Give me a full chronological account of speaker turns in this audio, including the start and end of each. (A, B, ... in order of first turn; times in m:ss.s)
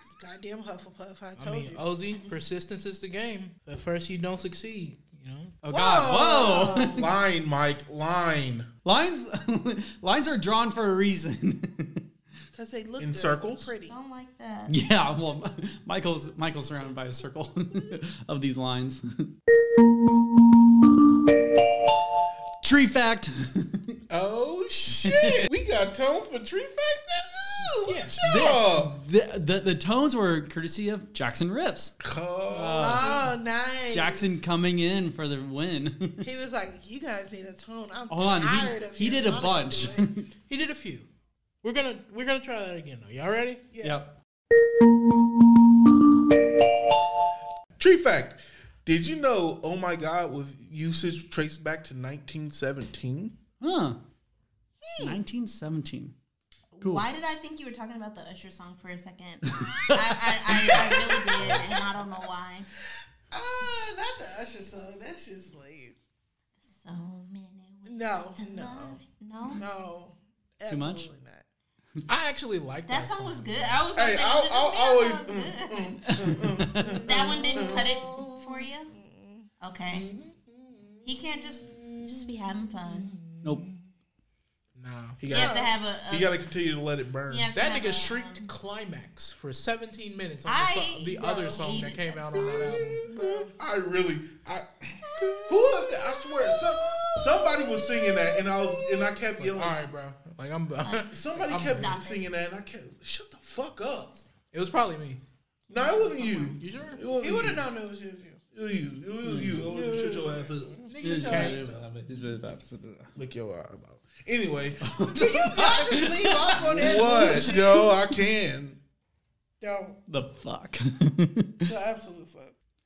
0:00.1-0:01.8 A
0:01.4-0:05.6 B
0:02.1-0:02.4 C
0:05.6-0:07.1 D
0:05.7-0:07.1 A
0:06.4-0:06.9 C
0:06.9-0:08.7 E
0:08.8-0:12.1 D
0:12.5-0:14.0 A
0:13.0-0:13.7 E
0:13.9-0:14.8 C
0:14.7-0:19.3 D
0:22.6-0:24.0 D
0:24.1-0:28.9 E
0:25.0-0:25.5 D
0:27.6-0:28.0 A
0:27.8-0:28.2 B
0:28.2-0:31.9 D
0:32.0-0:33.1 E
0:32.5-0:33.3 D
0:32.8-0:34.3 A
0:33.9-0:36.2 D
0:36.2-0:40.1 A
0:38.1-0:40.3 D
0:40.5-0:41.1 B
0:41.6-0:43.7 B
0:43.7-0:44.0 A
0:43.8-0:44.2 D
0:47.8-0:53.4 E
0:53.6-0:54.0 D
0:54.8-0:55.2 A
0:55.0-0:56.1 D
0:56.7-1:02.7 C
0:59.5-1:01.2 D
1:03.3-1:05.9 A
1:06.7-1:09.6 C
1:07.8-1:11.4 A
1:10.7-1:11.1 D
1:12.1-1:13.8 B
1:12.9-1:16.0 C
1:13.9-1:17.9 E
1:16.0-1:16.9 D
1:16.9-1:19.5 A
1:17.0-1:18.9 C
1:19.6-1:20.1 C
1:19.9-1:21.0 B
1:21.0-1:23.1 C
1:23.1-1:23.7 B
1:24.7-1:25.2 B
1:25.2-1:27.5 E
1:25.3-1:25.7 A
1:25.3-1:26.4 C
1:27.3-1:28.5 C
1:27.5-1:33.0 B
1:30.4-1:33.0 C
1:31.4-1:31.8 A
1:32.3-1:39.9 E
1:33.0-1:33.5 A
1:35.0-1:35.9 C
1:39.4-1:42.0 B
1:40.8-1:42.3 C
1:41.1-1:44.2 E
1:44.5-1:45.2 B
1:45.7-1:46.6 C
1:45.7-1:47.7 E
1:46.5-1:47.0 B
1:47.2-1:48.4 A
1:48.5-1:52.1 E
1:49.2-1:49.6 D
1:49.6-1:51.7 A
1:50.9-1:51.7 B
1:51.0-1:53.1 D
1:53.2-1:55.6 E
1:54.8-1:57.5 D
1:55.1-1:57.9 A
1:56.6-1:58.8 E
1:59.6-2:00.0 A
2:00.1-2:01.7 D
2:01.7-2:02.5 A